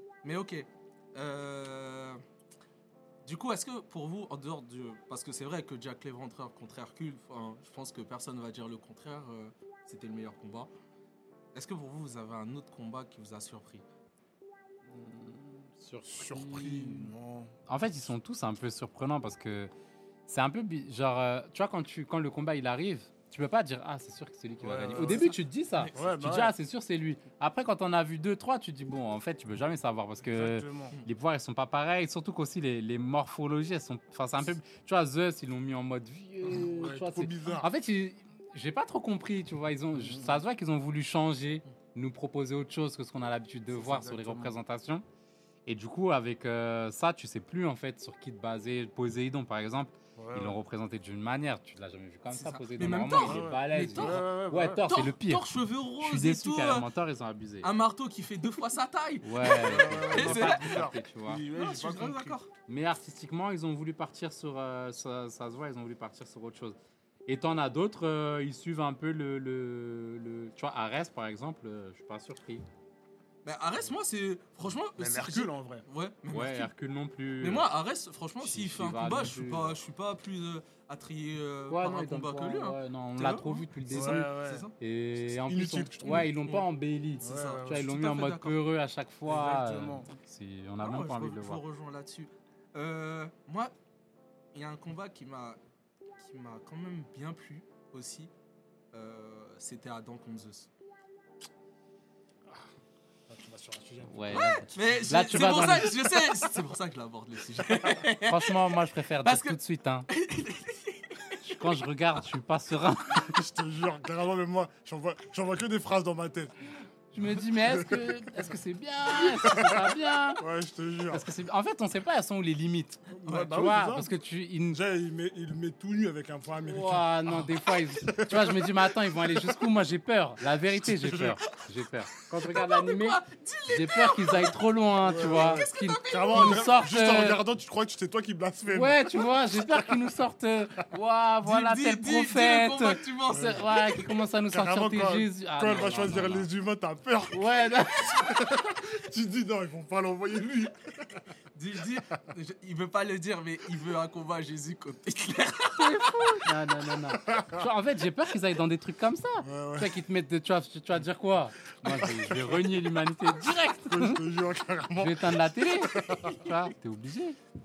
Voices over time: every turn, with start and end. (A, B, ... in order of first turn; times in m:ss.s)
0:00.2-0:02.2 A
0:03.2-0:10.7 A
0:11.6-0:13.8 A
0:14.9-0:17.1 B
0:16.0-0:17.5 C
0:17.7-0:19.7 B
0:20.3-0:45.0 B
0:24.6-0:25.4 C
0:24.9-0:26.0 A
0:25.9-0:26.6 C
0:30.2-0:31.0 C
0:36.4-0:37.7 C
0:40.0-0:40.4 C
0:43.7-0:44.6 C
0:45.7-0:57.7 B
0:50.2-0:50.6 C
0:52.3-0:54.3 A
0:53.2-0:54.9 C
0:54.8-0:56.9 A
0:57.6-1:00.6 A
0:59.2-1:01.4 B
0:59.5-1:02.4 C
1:01.5-1:02.5 A
1:02.7-1:06.8 B
1:07.3-1:12.6 B
1:13.4-1:16.7 A
1:15.0-1:15.9 C
1:16.3-1:17.7 B
1:17.4-1:24.8 A
1:18.4-1:19.8 B
1:21.7-1:31.6 B
1:23.9-1:24.6 C
1:25.2-1:26.3 C
1:26.0-1:26.6 A
1:27.2-1:28.6 A
1:27.2-1:27.9 C
1:29.3-1:30.1 C
1:30.8-1:33.7 A
1:34.5-1:35.6 A
1:36.2-1:38.3 A
1:38.9-1:40.7 A
1:43.3-1:44.6 C
1:44.0-1:46.2 B
1:44.7-1:48.6 A
1:48.2-1:50.1 B
1:49.2-1:49.6 A
1:50.1-1:51.4 A
1:51.4-1:53.4 B
1:53.2-1:56.5 C
1:57.1-2:00.4 B
1:57.7-1:58.1 C
1:59.1-2:01.3 C
2:01.1-2:04.8 B
2:03.1-2:04.1 C
2:04.7-2:07.5 C
2:06.6-2:17.4 B
2:08.1-2:08.8 C
2:10.7-2:11.4 C
2:12.6-2:14.6 A
2:15.0-2:20.1 C
2:15.3-2:16.5 A
2:18.7-2:26.5 B
2:21.4-2:23.7 A
2:23.3-2:23.7 C
2:24.5-2:31.2 C
2:27.3-2:28.4 B
2:31.6-2:36.3 A
2:35.8-2:44.2 B
2:37.3-2:37.6 C
2:39.4-2:39.9 C
2:41.8-2:42.8 C
2:43.8-2:46.5 C
2:45.0-2:47.4 B